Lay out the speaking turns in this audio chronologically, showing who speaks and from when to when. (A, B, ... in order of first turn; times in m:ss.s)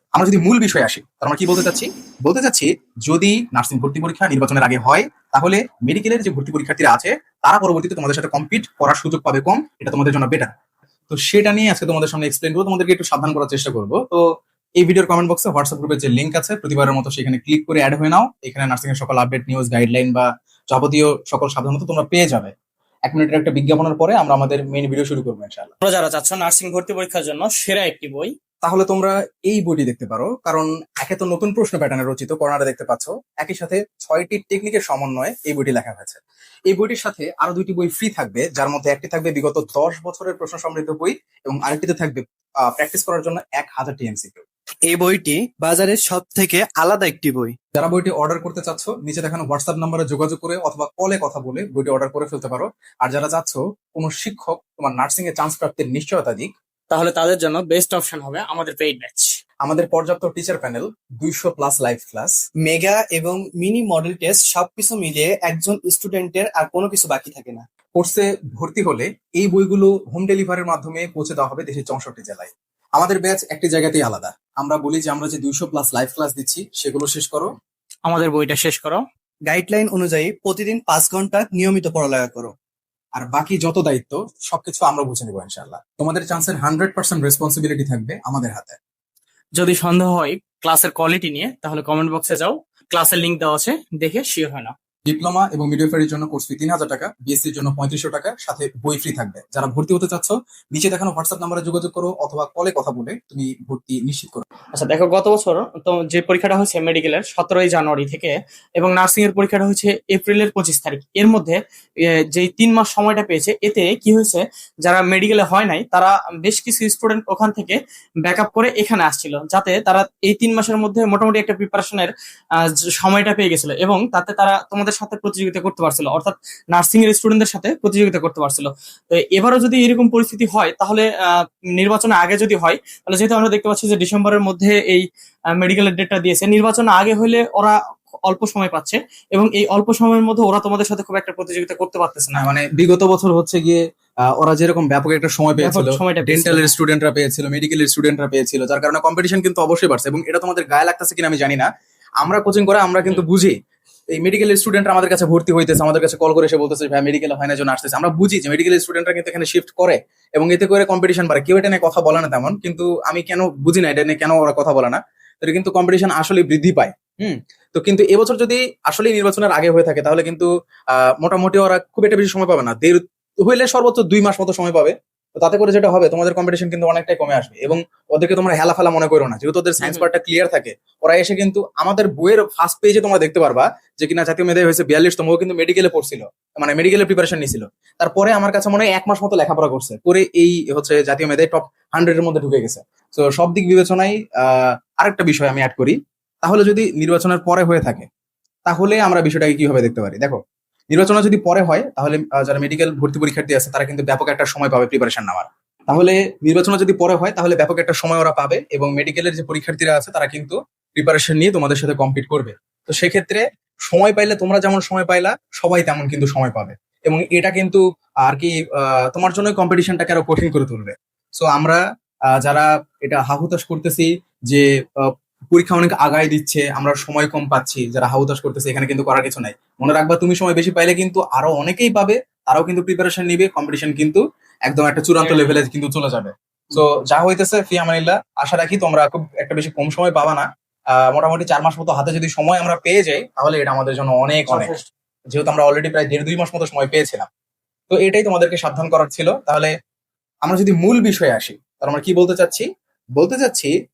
0:00.2-0:10.5 A
0:11.1-0:14.2 A
0:14.8-0:22.5 A
0:23.1-0:25.7 A
0:25.8-0:28.3 B
0:28.6-0:44.4 A
0:44.9-0:47.6 C
0:47.8-0:56.5 A
0:56.9-0:59.3 B
0:59.6-1:02.4 A
1:02.6-1:07.6 C
1:08.0-1:17.5 A
1:18.1-1:19.0 B
1:19.5-1:22.5 C
1:23.2-1:28.8 A
1:29.6-1:34.7 B
1:35.1-1:44.4 A
1:44.7-2:22.5 B
2:22.3-2:31.7 A
2:25.6-2:26.7 B
2:32.2-2:33.6 A
2:34.1-2:50.5 A
2:51.2-3:18.1 A
2:59.8-3:00.1 B
3:18.7-3:20.4 A
3:20.9-3:38.5 A
3:39.1-3:41.8 A
3:42.4-4:04.7 A
3:55.2-3:55.6 B
4:04.5-4:04.8 B
4:05.3-4:07.3 A
4:07.9-4:09.7 A
4:10.4-4:13.7 A